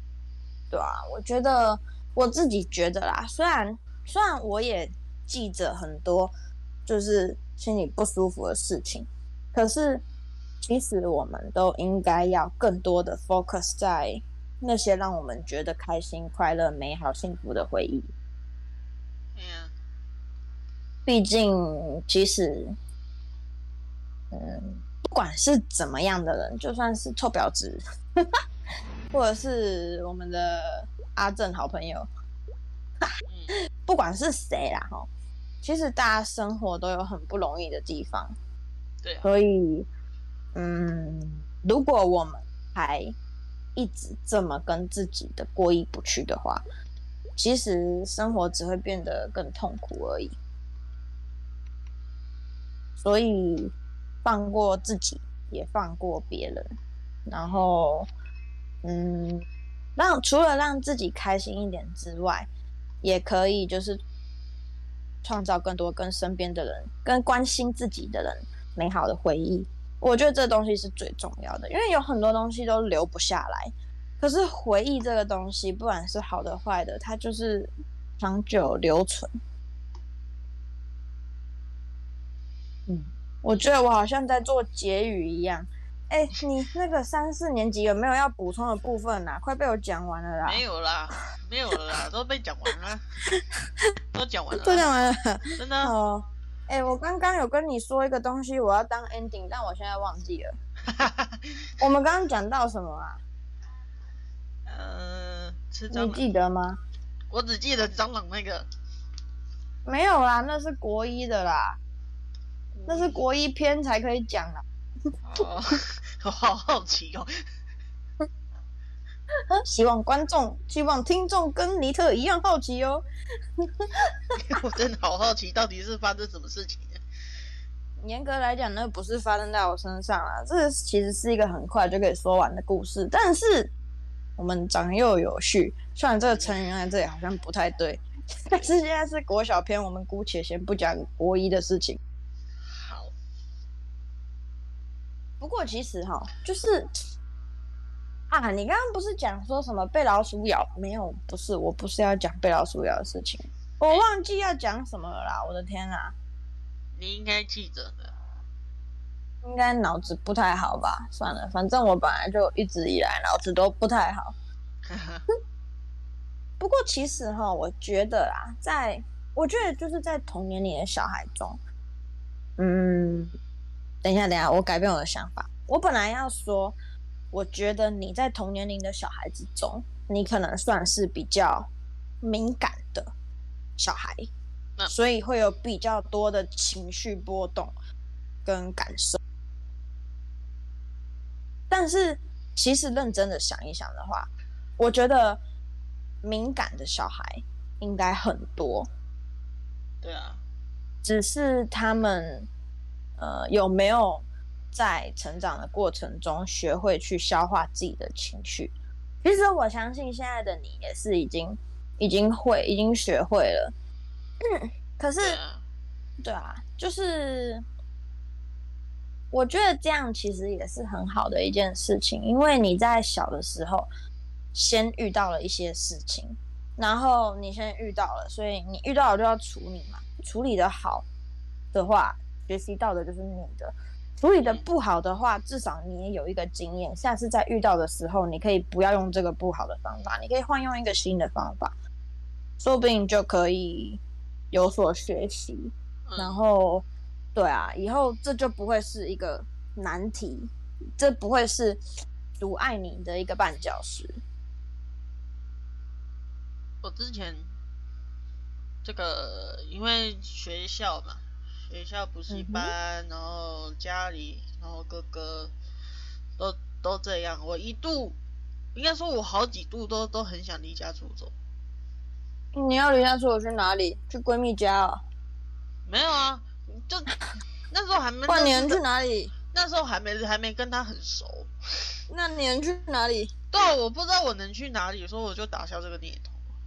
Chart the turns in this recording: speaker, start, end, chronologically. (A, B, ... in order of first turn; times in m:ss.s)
0:00.7-0:06.3 A
0:06.8-0:10.0 A
0:10.6-0:18.1 A
0:19.3-0:19.7 B
0:21.0-0:22.8 A
0:24.3-0:27.8 A
0:29.1-0:32.1 A
0:33.3-0:33.5 B
0:33.8-0:35.1 A
0:35.6-0:38.3 A
0:39.0-0:39.3 B
0:39.2-0:39.9 A
0:40.5-0:43.1 A
0:43.8-0:46.6 A
0:47.4-0:50.4 A
0:53.0-0:53.7 A
0:54.2-0:56.7 A
0:57.3-0:58.1 A
0:58.8-1:02.5 A
1:03.0-1:04.0 A
1:05.2-1:19.3 A
1:22.9-1:30.6 A
1:30.4-1:33.0 B
1:34.1-1:34.9 B
1:34.5-1:40.5 A
1:35.6-1:35.9 B
1:40.9-1:41.7 B
1:41.8-1:43.2 A
1:44.6-1:46.2 B
1:45.9-1:46.8 A
1:47.3-1:48.7 B
1:49.8-1:51.8 A
1:52.8-1:53.2 B
1:52.9-1:54.6 A
1:55.2-1:57.3 B
1:59.5-2:03.0 A
2:03.6-2:04.4 A
2:04.3-2:07.0 B
2:08.0-2:13.7 A
2:14.4-2:22.0 A
2:22.6-2:23.1 B
2:25.4-2:26.9 A
2:28.3-2:36.1 A
2:36.9-2:38.1 B
2:39.4-2:44.3 A
2:44.8-2:45.2 B
2:46.6-2:51.6 A
2:52.6-2:53.3 A
2:54.0-2:56.8 A
2:57.3-3:01.7 A
3:02.2-3:03.1 A
3:03.8-3:04.3 A
3:04.9-3:07.7 A
3:08.4-3:09.2 A
3:11.7-3:15.4 A
3:16.2-3:18.9 A
3:20.0-3:20.4 B
3:21.0-3:22.5 A
3:23.2-3:33.7 A
3:34.4-3:35.4 A
3:35.2-3:35.6 B
3:36.2-3:37.6 A
3:39.3-3:43.9 A
3:44.5-3:51.0 A
3:51.7-4:01.7 A
4:02.6-4:04.0 A
4:04.5-4:11.8 A
4:06.0-4:06.4 B
4:12.4-4:14.2 A
4:16.8-4:17.6 B
4:18.8-4:25.5 B
4:22.3-4:22.7 A
4:26.4-4:28.2 B
4:28.7-4:31.3 B
4:32.5-4:35.0 A
4:35.8-4:37.1 B
4:37.7-4:38.8 B
4:38.3-4:39.3 A
4:39.5-4:41.5 B
4:42.1-4:43.3 A
4:43.5-4:46.5 B